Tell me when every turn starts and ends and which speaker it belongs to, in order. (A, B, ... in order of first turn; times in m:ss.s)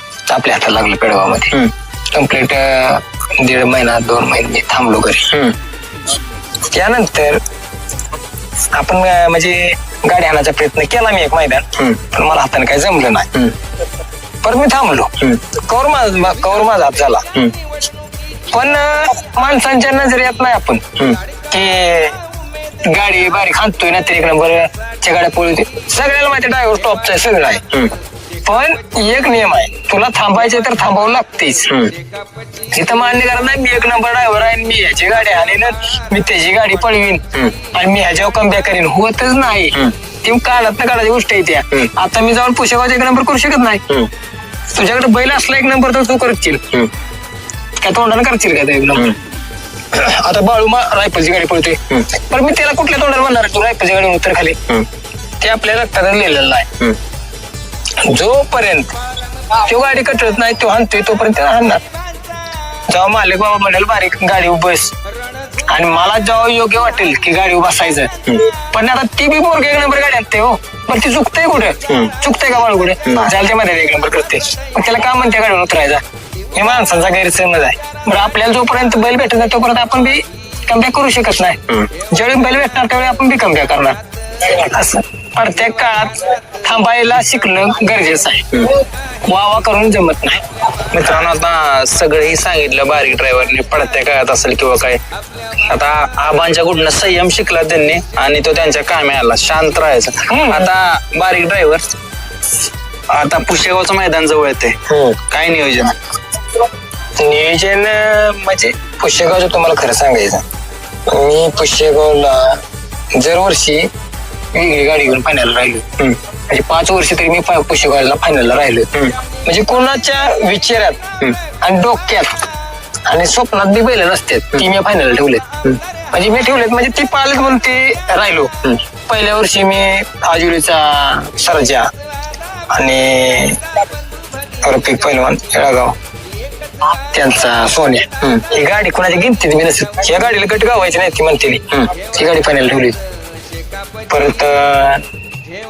0:00.3-0:01.6 A
0:02.1-0:05.4 A
0:06.7-0:07.4 A
0:08.7-0:13.3 A
0:14.4-0:17.4 A
0:18.5-0:21.0 A
0:21.5-0:22.2 A
0:22.8-0:27.8 A
0:28.4-0:31.8 A
0:32.7-0:43.9 A
0:44.7-0:46.8 A
0:47.8-0:49.2 A
0:49.9-0:54.8 A
0:55.4-0:56.9 A
0:58.0-0:58.9 A
0:59.6-1:01.8 A
1:02.9-1:04.9 A
1:05.7-1:16.0 A
1:13.0-1:13.3 B
1:16.5-1:30.4 A
1:30.9-1:35.0 B
1:35.7-1:41.9 B
1:40.3-1:40.7 A
1:43.1-1:46.0 B
1:44.9-1:45.2 A
1:47.2-1:50.4 A
1:51.1-1:52.6 A
1:53.1-1:53.9 A
1:54.5-2:02.3 A
2:03.1-2:05.6 A
2:06.1-2:11.9 A
2:12.7-2:13.6 A
2:14.6-2:16.0 A
2:17.0-2:23.0 A
2:24.1-2:25.0 A